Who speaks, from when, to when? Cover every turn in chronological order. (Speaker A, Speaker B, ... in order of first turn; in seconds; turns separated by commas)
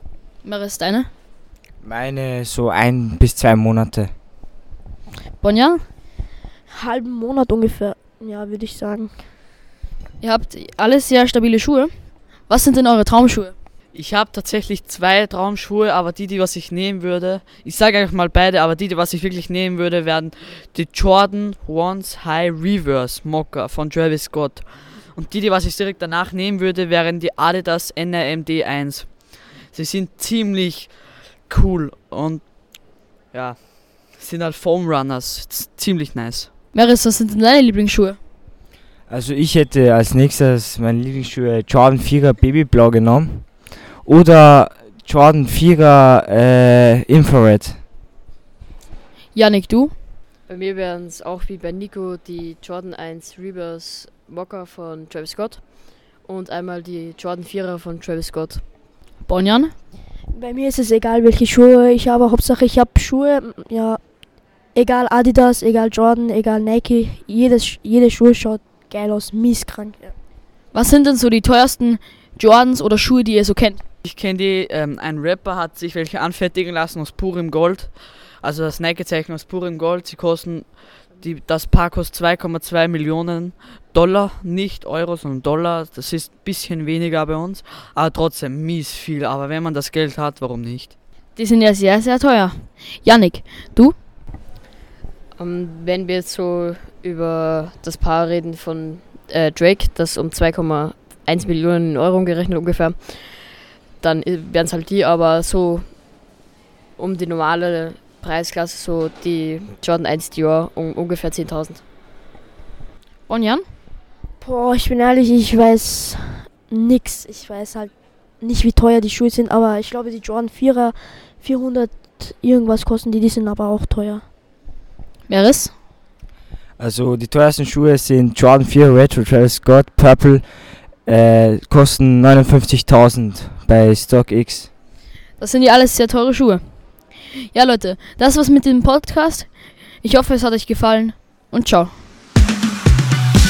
Speaker A: 0.4-1.1, Speaker B: 1.8-4.1, Speaker A: 5.4-5.8, Speaker C: 6.7-9.1, Speaker A: 10.2-13.5, Speaker D: 13.9-36.5, Speaker A: 36.7-38.2, Speaker B: 39.1-47.8, Speaker A: 49.3-49.9, Speaker E: 50.5-58.6, Speaker A: 59.2-59.7, Speaker C: 60.3-64.0, Speaker C: 64.7-70.1, Speaker A: 70.7-73.8, Speaker D: 74.0-90.9, Speaker A: 91.4-94.0, Speaker E: 95.3-105.9, Speaker E: 107.0-111.8, Speaker A: 113.3-113.6, Speaker C: 114.4-124.2, Speaker A: 125.3-125.7, Speaker B: 126.8-130.5, Speaker B: 131.0-134.7, Speaker A: 135.4-136.6, Speaker A: 137.5-139.5, Speaker A: 140.0-141.9